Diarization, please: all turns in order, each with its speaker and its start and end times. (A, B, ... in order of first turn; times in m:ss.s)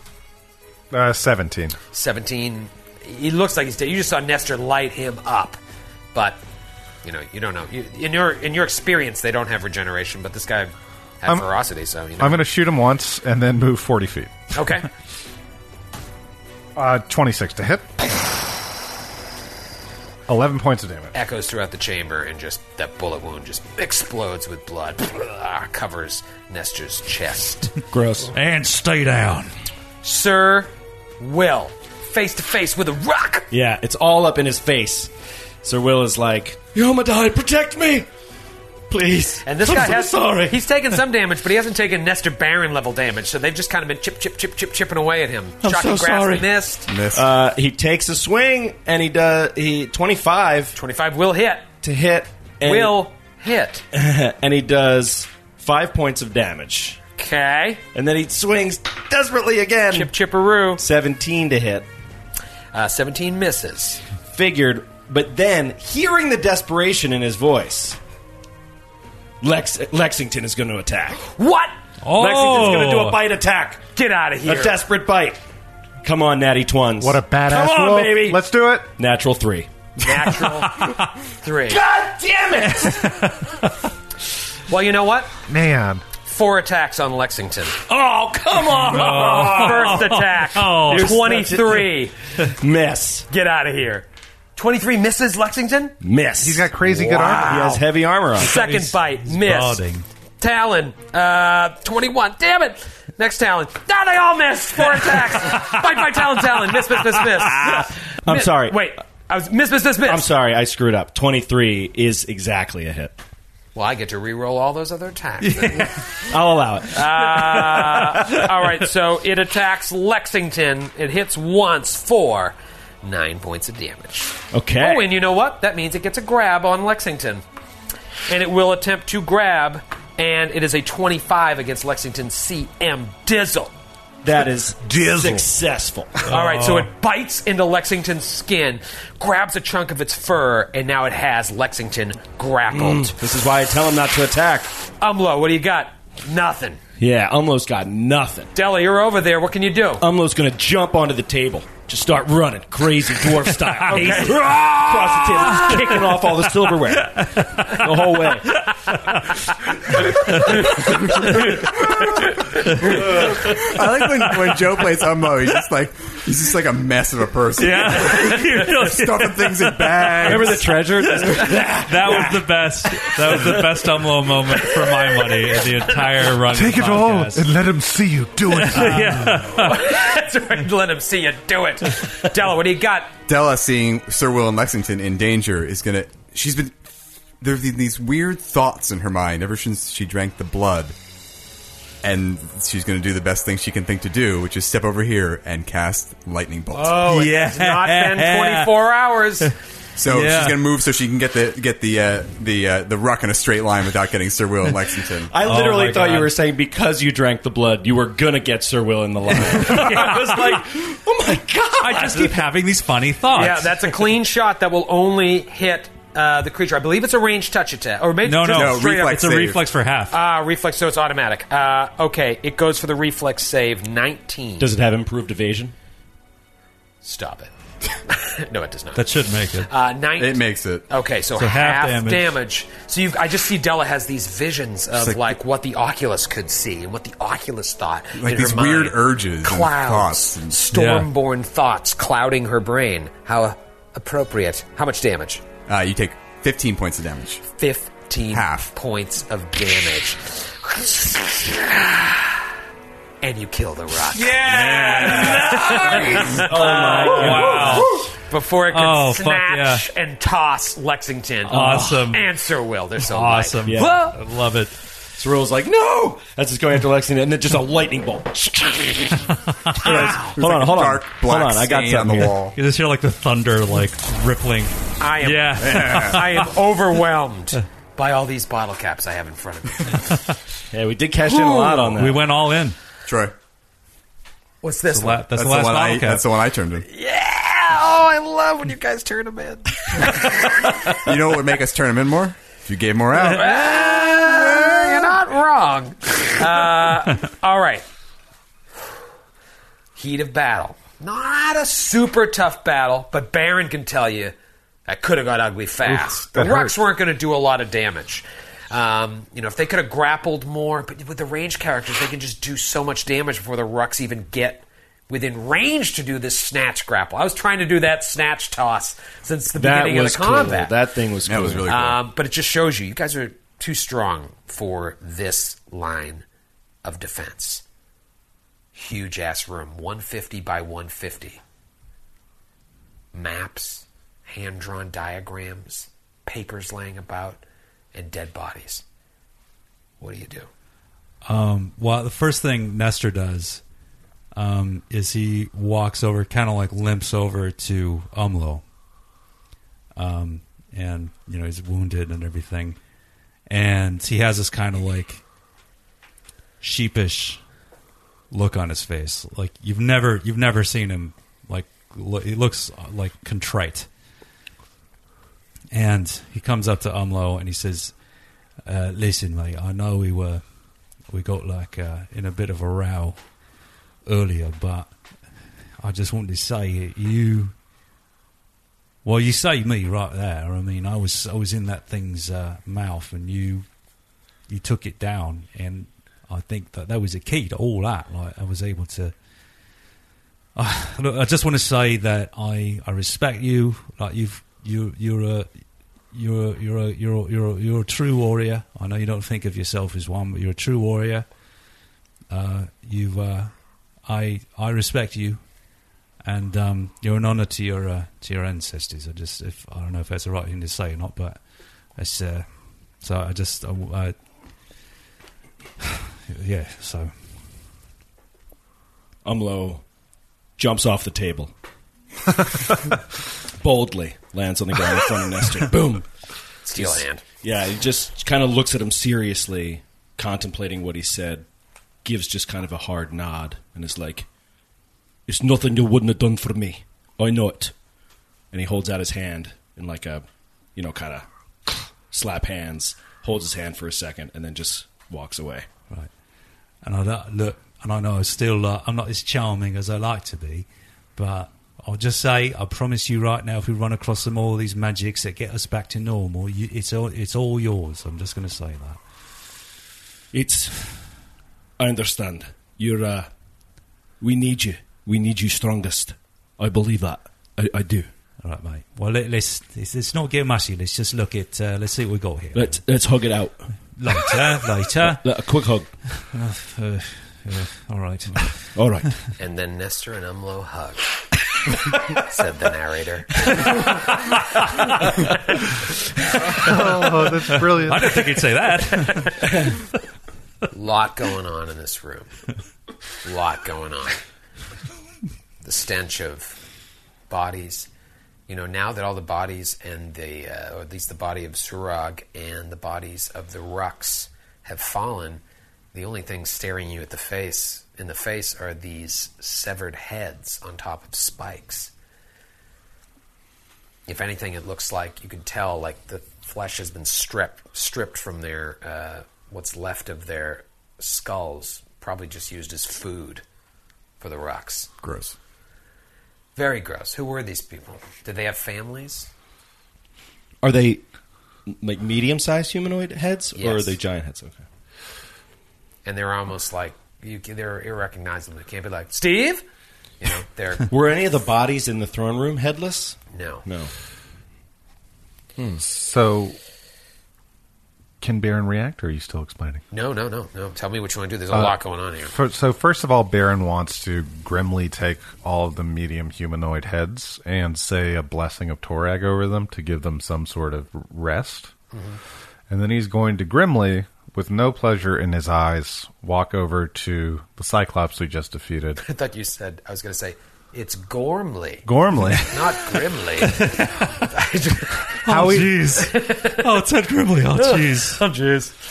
0:00.9-0:01.8 A
0:01.9-0:05.6 B
0:06.1-0:06.4 B
0:07.0-0:12.4 B
0:12.2-0:14.3 A
0:14.5-0:14.9 B
0:16.8-0:18.1 A
0:20.3-0:21.1 A
0:21.1-0:27.7 B
0:27.9-0:28.3 C
0:28.3-0:29.5 D
0:30.0-0:33.5 B
0:33.5-0:35.1 C
0:35.6-0:38.1 C
0:38.9-0:40.6 C
0:39.4-0:46.8 B
0:45.6-0:46.5 C
0:46.9-0:47.3 E
0:47.1-0:50.8 C
0:50.7-0:51.7 B
0:51.8-0:53.0 C
0:52.6-0:53.8 B
0:53.9-0:57.0 C
0:57.2-0:57.8 B
0:57.9-1:00.1 C
0:59.9-1:00.8 B
1:00.8-1:01.9 C
1:02.7-1:04.0 B
1:04.3-1:08.0 C
1:09.4-1:11.2 C
1:11.3-1:11.7 B
1:12.0-1:13.2 D
1:12.1-1:13.8 C
1:14.0-1:14.8 B
1:14.4-1:15.4 C
1:16.0-1:18.4 C
1:17.0-1:18.9 A
1:19.0-1:19.7 C
1:20.0-1:20.8 B
1:20.6-1:21.1 D
1:21.4-1:21.8 B
1:21.7-1:23.3 C
1:22.8-1:23.7 D
1:24.7-1:25.3 B
1:25.5-1:26.0 A
1:26.2-1:27.8 B
1:27.9-1:32.0 C
1:28.8-1:31.2 D
1:29.0-1:32.1 B
1:32.5-1:33.2 C
1:33.3-1:35.9 B
1:36.0-1:36.7 C
1:36.4-1:37.7 A
1:36.8-1:37.8 B
1:37.4-1:38.5 C
1:38.4-1:39.8 B
1:38.4-1:40.0 D
1:40.4-1:50.3 B
1:47.7-1:48.8 C
1:50.0-1:53.2 C
1:53.7-1:56.0 B
1:56.2-1:58.3 C
1:56.9-2:07.4 B
1:57.4-1:58.1 D
2:04.5-2:05.1 C
2:08.3-2:13.7 B
2:14.2-2:16.2 C
2:16.3-2:16.9 D
2:16.3-2:23.2 B
2:22.7-2:24.7 C
2:25.0-2:26.8 B
2:27.0-2:28.5 C
2:28.5-2:30.0 B
2:30.0-2:38.6 C
2:33.6-2:36.0 D
2:33.9-2:34.6 B
2:35.4-2:36.1 B
2:36.7-2:39.4 D
2:40.1-2:41.6 D
2:40.3-2:42.7 B
2:41.0-2:42.1 E
2:42.8-2:43.4 D
2:42.8-2:50.8 E
2:44.0-2:44.7 D
2:47.6-2:57.6 D
2:50.2-2:53.9 C
2:54.5-2:56.0 B
2:56.4-2:59.4 A
2:58.5-2:59.9 D
2:58.7-3:03.1 B
3:03.3-3:06.8 E
3:07.4-3:10.9 E
3:12.0-3:17.0 E
3:16.7-3:19.5 B
3:17.0-3:18.7 D
3:20.0-3:25.3 E
3:20.0-3:20.6 D
3:25.3-3:32.4 C
3:25.4-3:26.3 D
3:29.5-3:30.6 D
3:29.7-3:30.2 B
3:31.8-3:33.8 D
3:33.3-3:39.2 B
3:38.2-3:40.2 D
3:38.5-3:39.6 E
3:40.1-3:44.7 B
3:44.6-3:45.7 C
3:47.0-3:47.5 B
3:48.1-3:49.1 B
3:48.9-3:49.7 D
3:49.6-4:05.4 B
3:50.2-3:50.8 E
3:51.4-3:52.3 D
3:55.0-3:55.2 E
3:58.2-4:00.6 E
4:00.7-4:01.1 D
4:05.7-4:07.4 E
4:07.6-4:12.3 B
4:08.3-4:08.7 E
4:13.2-4:24.1 B
4:14.2-4:18.0 D
4:14.4-4:15.5 E
4:14.5-4:18.0 C
4:18.7-4:19.8 D
4:21.4-4:22.3 D
4:21.5-4:22.0 C
4:23.0-4:24.7 D
4:23.6-4:24.1 C
4:25.2-4:32.4 C
4:29.3-4:30.2 D
4:29.8-4:32.6 E
4:29.8-4:30.3 B
4:32.5-4:36.5 D
4:35.0-4:40.2 B
4:35.6-4:36.2 E
4:40.7-4:42.3 C
4:41.2-4:42.0 B
4:42.0-4:42.8 D
4:43.0-4:43.3 E
4:44.6-4:45.3 B
4:44.9-4:46.2 D
4:45.3-4:46.8 E
4:46.8-4:50.9 B
4:50.9-4:55.0 E
4:53.1-4:57.8 B
5:00.0-5:04.3 B
5:04.9-5:20.7 B
5:05.8-5:06.8 A
5:19.5-5:21.7 C
5:21.2-5:22.0 E
5:21.6-5:26.2 B
5:26.8-5:27.6 B
5:28.7-5:31.4 B
5:33.1-5:37.4 B
5:37.9-5:38.8 B
5:40.0-5:40.5 B
5:41.2-5:43.6 D
5:44.3-5:48.6 D
5:50.0-5:52.8 D
5:53.5-5:55.2 D
5:56.6-5:57.4 D
5:58.3-6:03.9 D
6:05.7-6:08.0 D
6:08.6-6:13.2 D
6:14.0-6:14.9 D
6:15.8-6:17.5 D
6:19.0-6:23.7 D
6:24.5-6:29.1 D
6:30.5-6:41.4 D
6:42.3-6:45.6 D
6:46.2-6:52.4 D
6:53.0-6:54.1 D
6:55.8-6:57.2 D
6:59.2-6:59.8 C
7:00.6-7:01.5 C
7:03.6-7:06.0 C
7:06.6-7:07.2 B
7:06.7-7:11.4 C
7:12.0-7:14.2 C
7:15.3-7:17.7 C
7:18.5-7:20.2 C
7:20.8-7:25.6 C
7:26.8-7:39.0 D
7:40.3-7:41.0 C
7:41.8-7:43.3 C
7:44.2-7:48.1 C
7:48.4-7:52.8 D
7:52.5-7:54.3 C
7:54.0-7:55.3 D
7:55.0-7:55.9 C
7:56.1-7:59.1 D
7:58.7-7:59.1 C
7:59.4-8:01.1 B
8:02.1-8:04.6 B
8:06.6-8:08.2 A
8:06.6-8:09.7 D
8:10.7-8:12.5 B
8:13.2-8:14.2 B
8:15.6-8:16.6 B
8:17.3-8:17.9 B
8:18.5-8:25.4 B
8:25.9-8:31.9 B
8:34.1-8:43.4 B
8:44.2-8:44.9 B
8:45.0-8:45.3 E
8:46.6-8:49.3 B
8:50.6-8:51.0 C
8:51.7-8:54.6 C
8:53.6-8:53.9 B
8:56.0-8:59.6 B
9:00.2-9:00.9 B
9:00.9-9:03.9 C
9:03.3-9:03.6 B
9:05.6-9:05.8 C
9:05.8-9:06.6 A
9:08.2-9:09.8 A
9:09.9-9:12.3 B
9:11.5-9:21.7 A
9:21.9-9:22.2 B
9:22.7-9:29.0 A
9:29.0-9:31.9 B
9:31.8-9:32.8 A
9:32.4-9:35.2 B
9:33.4-9:33.9 D
9:35.2-9:38.2 D
9:35.3-9:36.0 A
9:35.9-9:36.7 B
9:37.5-9:38.7 B